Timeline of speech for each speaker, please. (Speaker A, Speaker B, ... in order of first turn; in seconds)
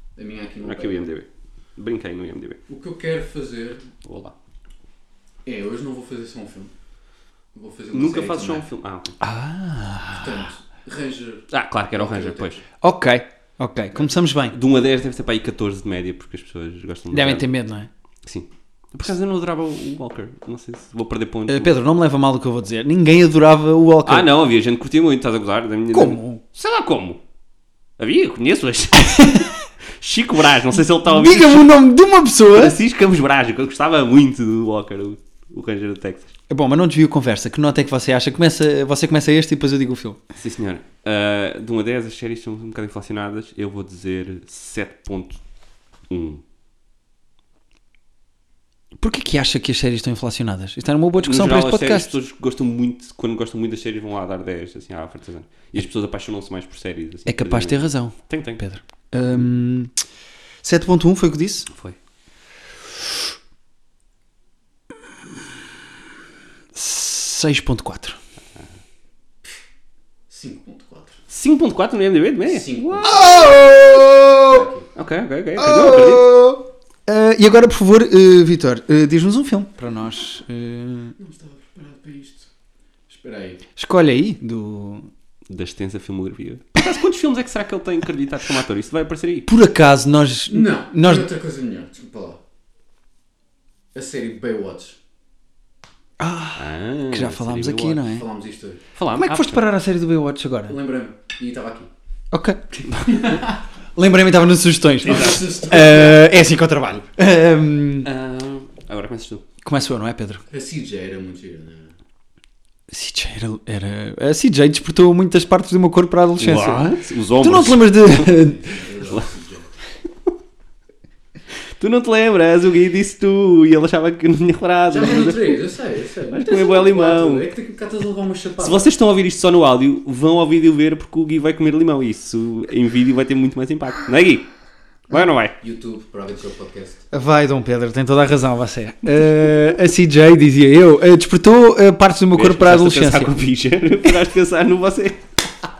Speaker A: 0.1-1.1, 2.7-3.9, 5.4-6.7, 7.5-8.7, 10.2-12.6, 70.3-71.2, 72.5-73.7, 74.5-74.9, 81.2-82.5, 83.1-83.6, 90.5-92.4, 93.9-95.0, 98.1-98.8, 100.7-101.9, 103.0-103.5, 105.0-106.3, 110.5-111.9, 118.6-119.7, 124.9-128.9, 135.6-137.0
Speaker B: 0.6-2.6, 4.0-4.3, 7.9-9.2, 11.5-12.6, 14.5-17.5, 18.2-21.7, 24.0-27.2, 28.0-31.8, 32.5-36.3, 40.4-45.4, 46.1-46.4, 51.2-58.6, 61.7-62.0, 71.3-73.3, 74.9-76.3, 85.5-89.5, 96.5-98.1, 99.0-99.6, 105.1-105.4, 108.0-109.4, 116.4-118.5, 121.8-125.6, 126.3-127.5, 128.6-134.5, 135.1-135.5, 142.3-145.2
Speaker C: 9.2-10.4, 12.8-14.5, 17.1-17.9, 21.5-24.3, 25.9-26.4, 31.0-32.8, 36.5-40.2, 49.0-52.1, 57.3-59.9, 60.6-61.7, 66.7-68.2, 73.0-74.7, 75.6-81.1, 83.8-85.1, 89.5-91.3, 96.2-98.2, 99.2-100.7, 102.3-103.4, 104.0-108.1, 109.6-110.4, 112.9-118.7, 137.1-143.3